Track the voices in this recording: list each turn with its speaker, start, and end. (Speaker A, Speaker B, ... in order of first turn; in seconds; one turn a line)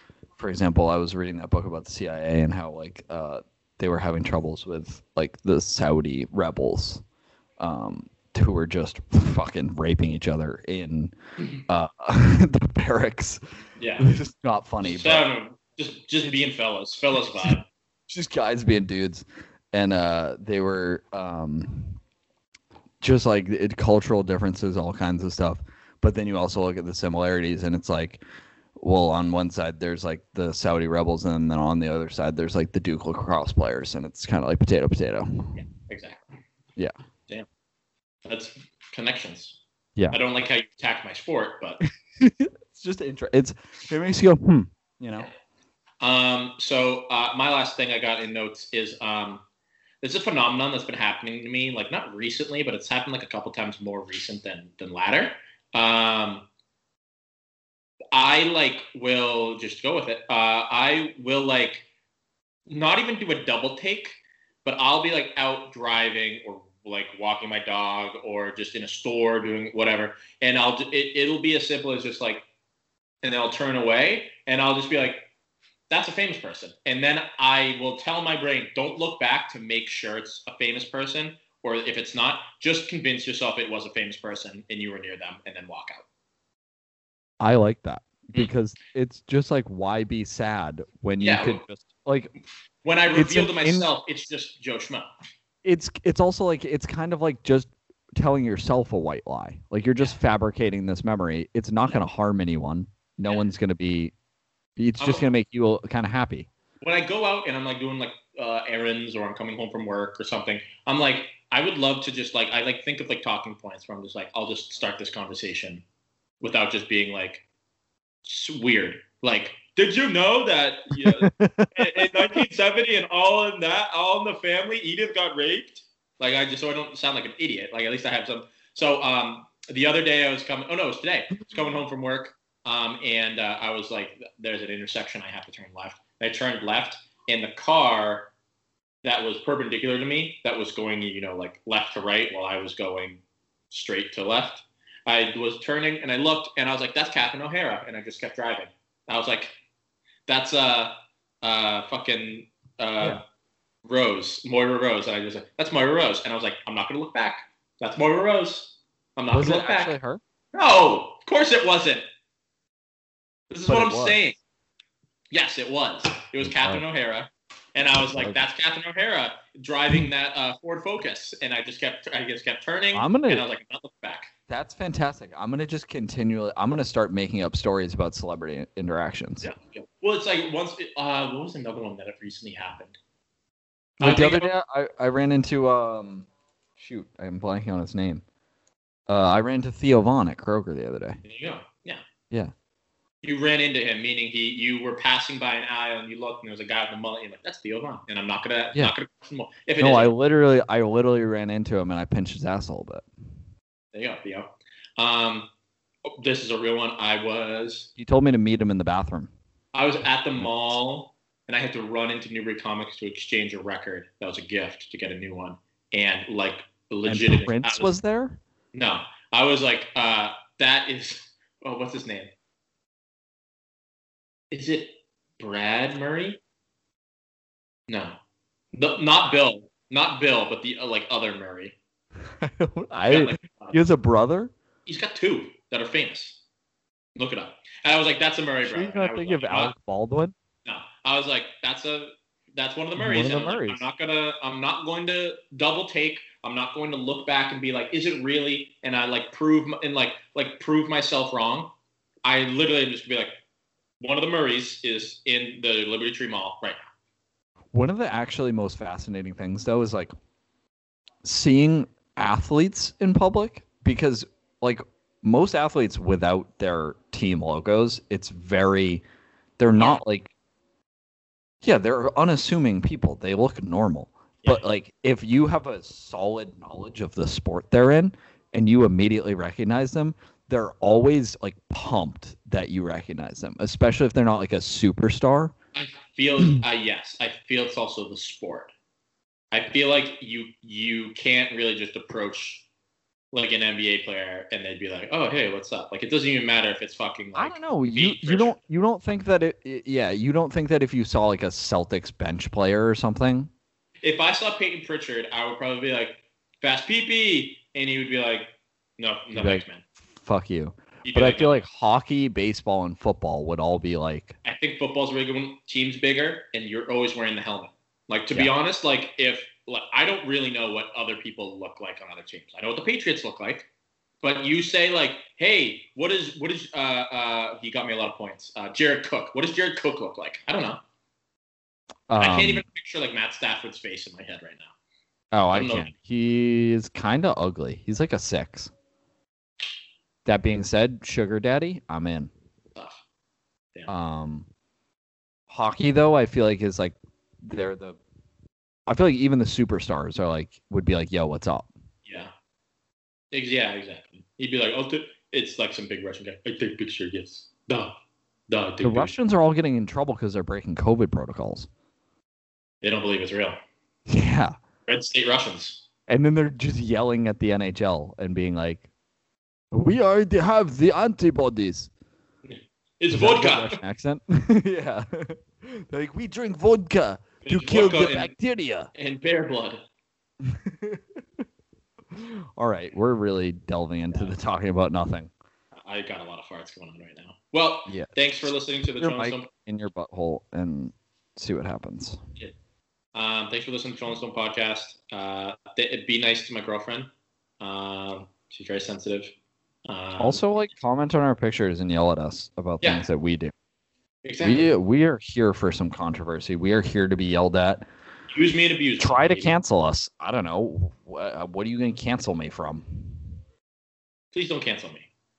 Speaker A: 0.4-7.0
Speaker A: 7.6-11.1
Speaker A: 11.7-13.4
Speaker B: 13.8-14.1
Speaker A: 14.0-15.3
Speaker B: 14.8-17.7
Speaker A: 18.1-22.0
Speaker A: 23.0-28.2
Speaker A: 28.8-35.6
Speaker B: 35.5-36.3
Speaker B: 38.3-39.6
Speaker B: 40.1-41.9
Speaker A: 42.2-45.3
Speaker B: 46.0-49.4
Speaker B: 50.0-56.5
Speaker B: 58.1-61.9
Speaker B: 62.7-72.4
Speaker B: 73.2-75.3
Speaker B: 75.9-86.0
Speaker A: 87.4-92.3
Speaker B: 91.2-91.6
Speaker B: 92.8-95.1
Speaker A: 93.1-93.9
Speaker A: 95.6-104.1
Speaker A: 104.8-106.5
Speaker B: 105.0-105.3
Speaker B: 106.8-115.8
Speaker B: 116.4-117.4
Speaker B: 118.2-138.3
Speaker A: 121.0-122.5
Speaker B: 139.0-149.6
Speaker B: 150.3-153.2
Speaker B: 153.9-159.9
Speaker A: 159.3-160.2
Speaker B: 160.5-162.1
Speaker B: 163.5-164.4
Speaker A: 163.7-164.2
Speaker B: 165.3-174.3
Speaker A: 166.4-166.8
Speaker A: 168.1-168.4
Speaker A: 172.9-173.4
Speaker A: 174.5-179.5
Speaker B: 179.4-183.0
Speaker B: 184.0-184.5
Speaker A: 184.0-186.3
Speaker A: 186.8-188.2
Speaker A: 189.1-191.2
Speaker B: 191.2-192.0
Speaker B: 193.2-200.1
Speaker A: 199.8-203.1
Speaker B: 203.9-205.5
Speaker B: 206.1-207.9
Speaker A: 208.0-209.3
Speaker B: 209.7-217.9
Speaker A: 210.4-210.7
Speaker A: 217.1-218.4
Speaker B: 218.7-222.3
Speaker B: 224.5-226.4
Speaker B: 227.9-228.2
Speaker B: 228.7-231.8
Speaker A: 232.4-234.5
Speaker B: 233.1-233.8
Speaker B: 234.9-236.4
Speaker B: 237.2-239.7
Speaker A: 238.7-240.3
Speaker B: 240.7-251.7
Speaker A: 243.0-243.9
Speaker B: 252.2-253.4
Speaker B: 254.0-256.9
Speaker A: 257.7-260.1
Speaker A: 261.2-269.0
Speaker A: 269.6-270.3
Speaker B: 269.8-270.0
Speaker A: 271.6-285.5
Speaker B: 285.7-288.7
Speaker B: 289.5-292.6
Speaker B: 293.3-298.6
Speaker A: 297.4-303.5
Speaker B: 304.0-309.8
Speaker A: 309.4-314.4
Speaker B: 311.1-311.6
Speaker B: 314.4-323.7
Speaker B: 324.2-330.8
Speaker A: 332.1-332.7
Speaker B: 332.2-334.7
Speaker A: 335.3-338.7
Speaker B: 335.5-335.9
Speaker A: 340.3-342.3
Speaker B: 342.8-343.0
Speaker A: 343.9-344.5
Speaker A: 345.5-348.0
Speaker A: 348.9-351.7
Speaker B: 352.1-352.3
Speaker B: 353.3-357.9
Speaker B: 358.5-359.1
Speaker A: 358.8-361.7
Speaker B: 362.8-363.6
Speaker A: 364.1-364.6
Speaker B: 364.9-365.8
Speaker A: 366.1-368.9
Speaker A: 369.7-371.9
Speaker B: 372.5-373.8
Speaker A: 373.1-378.9
Speaker B: 377.4-378.3
Speaker B: 378.9-379.9
Speaker A: 380.4-381.4
Speaker A: 382.1-385.3
Speaker B: 385.9-389.5
Speaker A: 389.0-392.2
Speaker B: 393.1-397.1
Speaker B: 397.6-399.3
Speaker B: 399.9-400.4
Speaker A: 400.2-403.5
Speaker B: 404.2-404.7
Speaker A: 404.4-407.9
Speaker B: 408.3-409.6
Speaker A: 409.0-413.4
Speaker B: 414.3-415.1